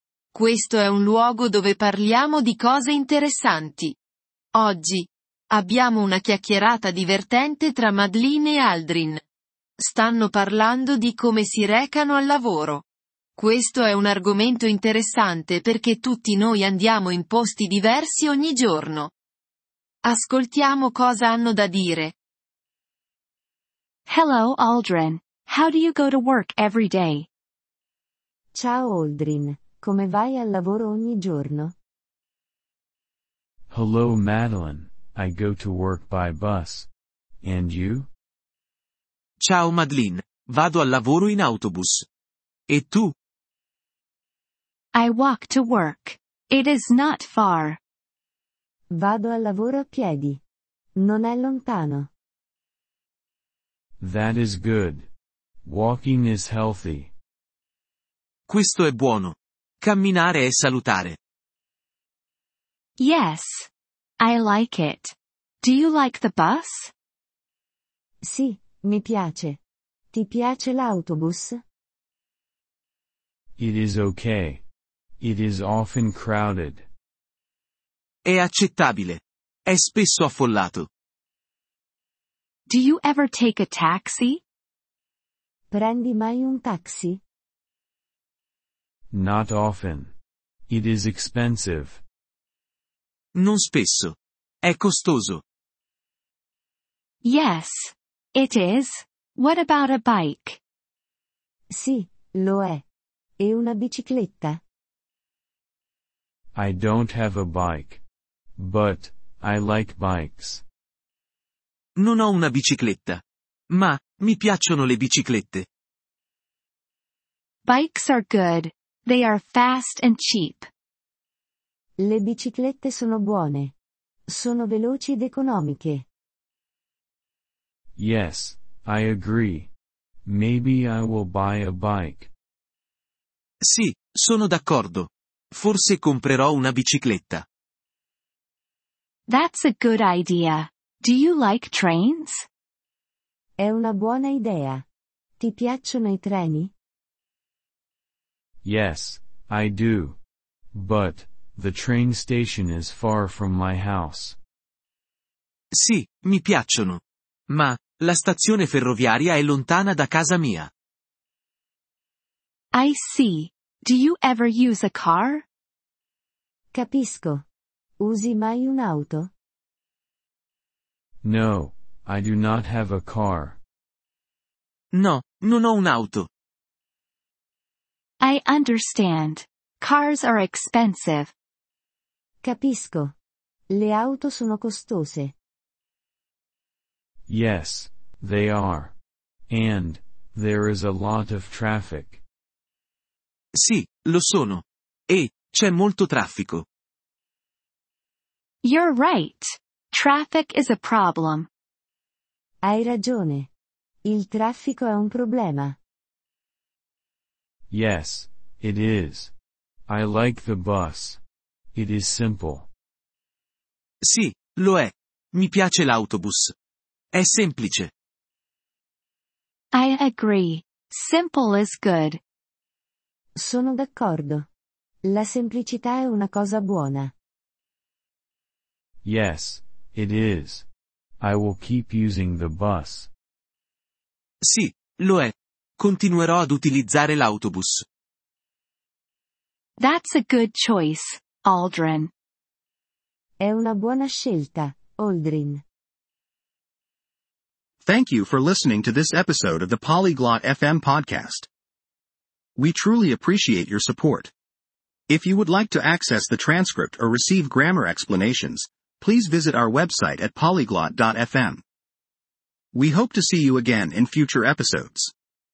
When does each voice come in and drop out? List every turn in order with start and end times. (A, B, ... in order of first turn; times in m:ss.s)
0:00.3-0:04.0 A
0:04.5-0:09.2 A
0:09.8-0:12.8 A
0:13.4-0:19.1 A
0:20.0-0:22.1 A
0:24.1-0:27.3 B
0:28.5-0:31.7 C
0:33.7-0:36.9 D
0:37.4-0:38.1 D
0:39.4-0:42.0 E
0:42.7-0:43.1 E
0:44.9-0:47.8 B
0:48.9-0:50.4 C
0:51.0-0:52.1 C
0:54.0-0:55.1 D
0:55.6-0:57.1 D
0:58.5-1:01.2 E
1:03.0-1:03.7 B
1:04.2-1:06.9 B
1:08.2-1:09.6 C
1:10.1-1:11.6 C
1:13.6-1:14.6 D
1:15.2-1:16.9 D
1:18.3-1:20.9 E
1:22.7-1:24.4 B
1:25.7-1:27.2 C
1:29.1-1:30.1 D
1:30.7-1:32.0 D
1:33.4-1:35.4 E
1:37.2-1:40.6 B
1:41.7-1:42.8 C
1:43.4-1:44.6 C
1:46.5-1:48.0 D
1:48.6-1:50.6 D
1:52.0-1:53.2 E
1:53.7-1:55.6 E
1:57.6-2:00.7 B
2:02.0-2:03.7 C
2:04.3-2:06.0 C
2:08.0-2:09.7 D
2:10.2-2:12.3 D
2:13.6-2:17.4 E
2:19.3-2:22.4 B
2:23.6-2:24.8 C
2:25.4-2:26.7 C
2:28.6-2:30.2 D
2:30.7-2:34.4 D
2:35.7-2:37.0 E
2:37.5-2:40.7 E
2:42.7-2:45.4 B
2:46.7-2:47.4 C
2:48.0-2:49.3 C
2:51.2-2:53.6 D
2:54.9-2:56.3 E
2:58.2-3:01.3 B
3:02.4-3:03.1 C
3:03.7-3:05.3 C
3:07.3-3:08.9 D
3:09.5-3:12.2 D
3:13.6-3:16.6 E
3:18.6-3:21.5 B
3:22.6-3:23.5 C
3:24.0-3:25.8 C
3:27.7-3:29.3 D
3:29.9-3:31.2 D
3:31.7-3:32.7 D
3:34.0-3:36.5 E
3:37.1-3:37.9 E
3:39.7-3:42.2 B
3:43.4-3:44.4 C
3:45.1-3:47.1 C
3:49.0-3:50.7 D
3:51.2-3:53.1 D
3:54.4-3:57.8 E
3:59.8-4:02.1 B
4:03.4-4:05.6 C
4:07.8-4:11.5 F
4:12.6-4:14.3 F
4:15.1-4:21.6 F
4:22.7-4:25.1 F